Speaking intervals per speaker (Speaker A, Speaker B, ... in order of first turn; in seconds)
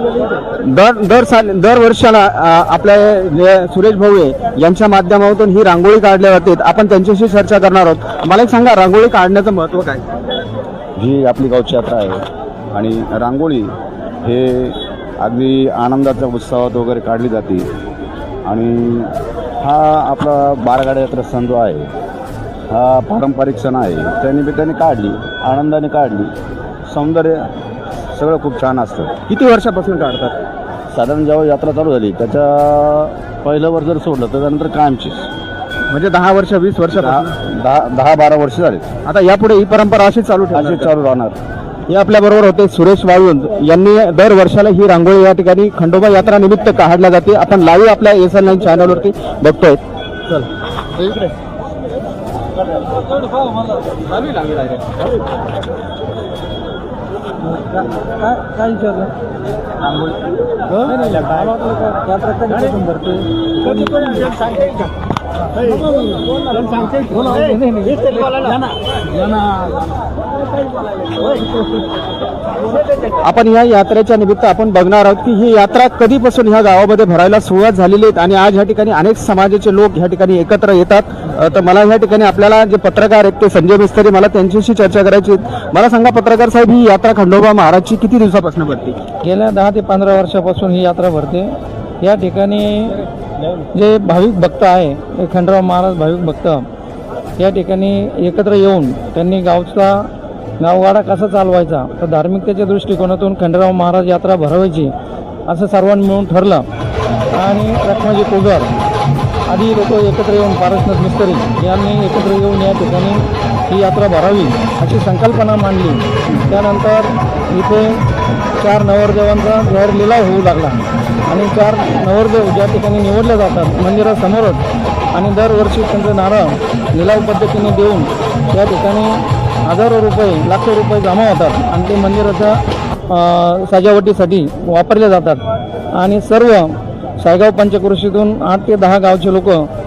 Speaker A: 0.6-10.0, 29.3-30.4, 35.9-37.3, 39.0-40.9, 41.9-49.8, 73.2-89.0
Speaker B: 11.0-17.7, 18.4-21.9, 22.7-26.3, 26.9-27.5, 28.1-29.1, 30.9-35.3, 36.9-38.9, 40.5-41.4
Speaker C: 58.2-59.1, 60.7-63.2, 63.8-64.3, 67.1-68.0, 89.2-93.0, 93.7-96.6, 97.4-100.1, 100.6-104.9, 105.5-106.6, 107.3-108.7, 109.5-118.0, 118.6-124.6, 125.1-132.5, 133.1-135.4, 135.9-136.7, 137.2-139.6